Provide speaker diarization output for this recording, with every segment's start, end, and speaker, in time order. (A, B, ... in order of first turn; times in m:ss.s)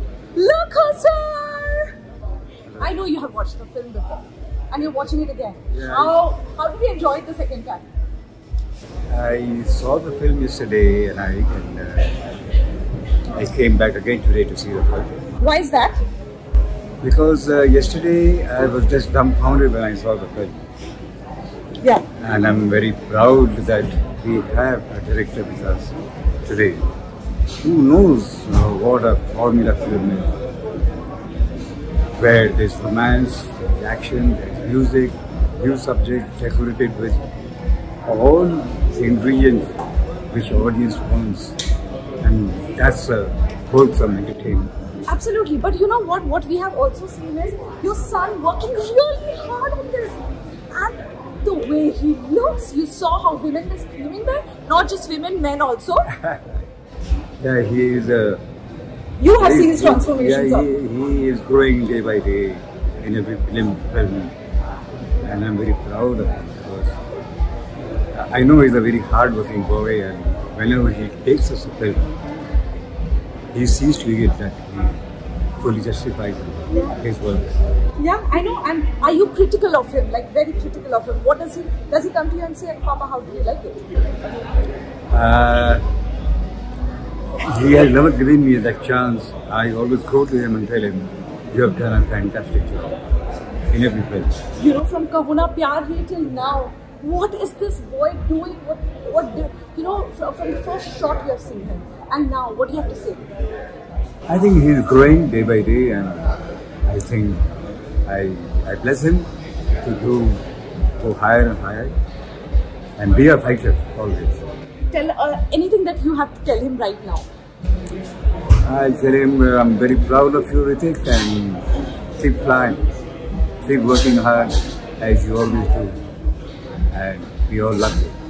0:00.3-0:01.9 A
0:02.8-0:07.8 A
0:05.7-0:06.2 B
0:09.1-0:12.2 B
0:13.3-0:15.1 B
0:15.4-0:16.0 A
0:17.0-0:20.5 B
0:22.2-0:25.9 B
0:26.4-0:26.8 B
0:27.6-0:30.3 B
0:32.2-0:37.2 B
0:38.0-0:39.7 B
0:40.3-0:41.6 B
0:42.2-0:44.7 B
0:45.1-0:50.2 A
0:50.7-0:56.1 A
0:57.4-0:58.4 B
0:59.2-1:00.7 A
0:59.4-1:04.3 B
1:05.2-1:07.0 B
1:08.1-1:12.1 B
1:13.5-1:15.0 B
1:15.6-1:17.5 B
1:18.0-1:23.8 A
1:25.1-1:25.8 B
1:27.4-1:33.0 B
1:33.7-1:34.3 B
1:34.6-1:43.2 A
1:44.3-1:47.4 B
1:48.1-1:49.3 B
1:49.8-1:50.4 B
1:51.0-1:51.9 B
1:53.0-1:54.4 B
1:54.9-1:57.2 A
1:58.6-2:01.6 B
2:02.2-2:02.8 B
2:03.6-2:05.9 B
2:06.9-2:08.1 B